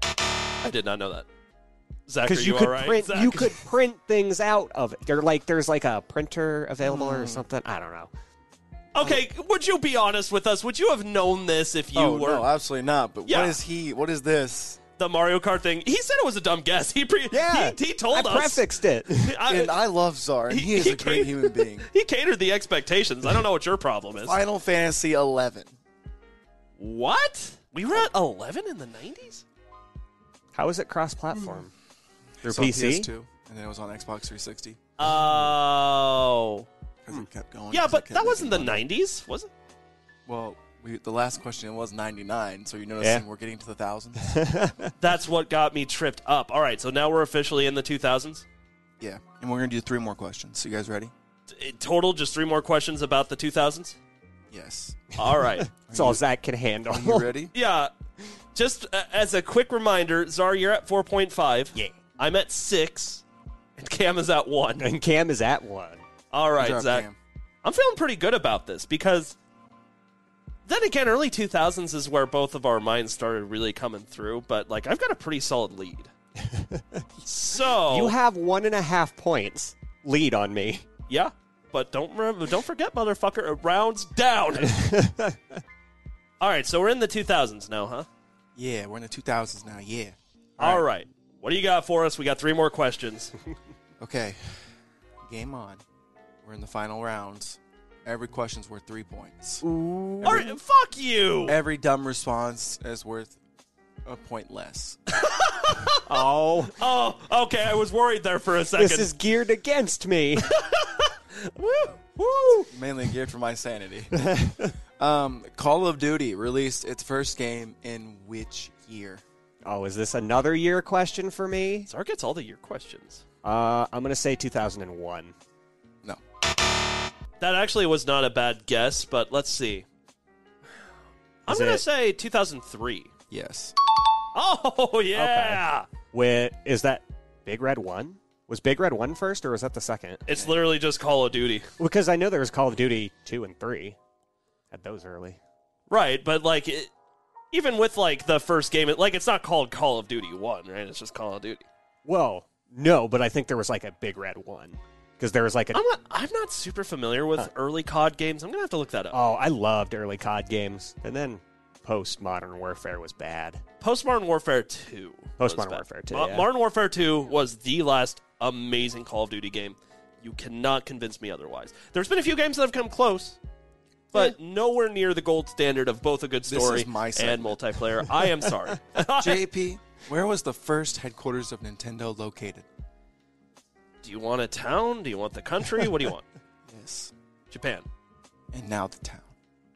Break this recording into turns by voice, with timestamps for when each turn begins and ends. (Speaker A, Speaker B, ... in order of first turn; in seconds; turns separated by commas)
Speaker A: 0.6-1.2, Speaker A: 2.1-3.5, Speaker B: 2.2-8.1, Speaker C: 6.8-7.4, Speaker A: 8.9-12.5, Speaker C: 11.9-14.8, Speaker A: 13.2-13.6, Speaker A: 15.0-19.8, Speaker B: 17.3-19.3, Speaker C: 19.5-21.9, Speaker A: 20.5-24.4, Speaker C: 24.2-25.7, Speaker A: 26.8-29.4, Speaker B: 30.5-31.7, Speaker C: 32.4-34.8, Speaker B: 32.4-33.1, Speaker A: 35.0-36.7, Speaker C: 37.0-38.8, Speaker A: 37.7-39.5, Speaker C: 40.3-44.4, Speaker B: 44.2-44.9, Speaker A: 45.0-48.4, Speaker C: 49.0-51.1, Speaker A: 51.5-54.0, Speaker C: 54.5-55.1, Speaker A: 55.2-55.7, Speaker B: 55.6-57.3, Speaker C: 55.9-56.2, Speaker C: 56.9-57.5, Speaker A: 57.5-57.9, Speaker A: 58.5-63.2, Speaker A: 63.8-64.9, Speaker B: 64.8-66.0, Speaker A: 66.3-67.1, Speaker C: 66.6-67.2, Speaker A: 67.6-69.3, Speaker A: 70.7-76.1, Speaker B: 76.4-77.0, Speaker A: 77.2-78.1, Speaker B: 77.9-80.8, Speaker A: 81.1-84.8, Speaker B: 84.7-85.4, Speaker A: 86.4-88.1, Speaker C: 88.5-90.8, Speaker A: 90.6-93.3, Speaker C: 94.0-94.5, Speaker C: 95.2-95.8, Speaker C: 96.4-99.6, Speaker B: 99.6-100.5, Speaker A: 100.2-101.6, Speaker C: 101.5-103.4, Speaker C: 104.0-105.0, Speaker A: 105.2-109.1, Speaker B: 106.0-106.7, Speaker B: 108.8-110.5, Speaker A: 110.4-112.7, Speaker C: 112.7-114.2, Speaker B: 114.1-114.7, Speaker C: 115.0-119.2, Speaker B: 119.7-121.9, Speaker A: 121.9-123.2, Speaker B: 123.4-125.3, Speaker A: 127.4-129.8, Speaker A: 131.5-133.1, Speaker B: 131.5-131.8, Speaker C: 133.3-133.7, Speaker A: 134.3-135.9, Speaker B: 135.1-140.2, Speaker A: 140.3-141.7, Speaker B: 141.8-144.0, Speaker B: 144.7-145.4, Speaker A: 145.9-146.9, Speaker A: 147.5-151.7, Speaker B: 152.0-155.8, Speaker A: 155.7-159.2, Speaker B: 159.1-163.6, Speaker A: 163.8-173.4, Speaker B: 165.4-166.5, Speaker A: 174.1-179.4, Speaker C: 176.4-177.6, Speaker C: 179.2-182.7, Speaker A: 184.0-186.2, Speaker C: 186.7-187.1, Speaker A: 187.5-187.8, Speaker C: 188.5-189.3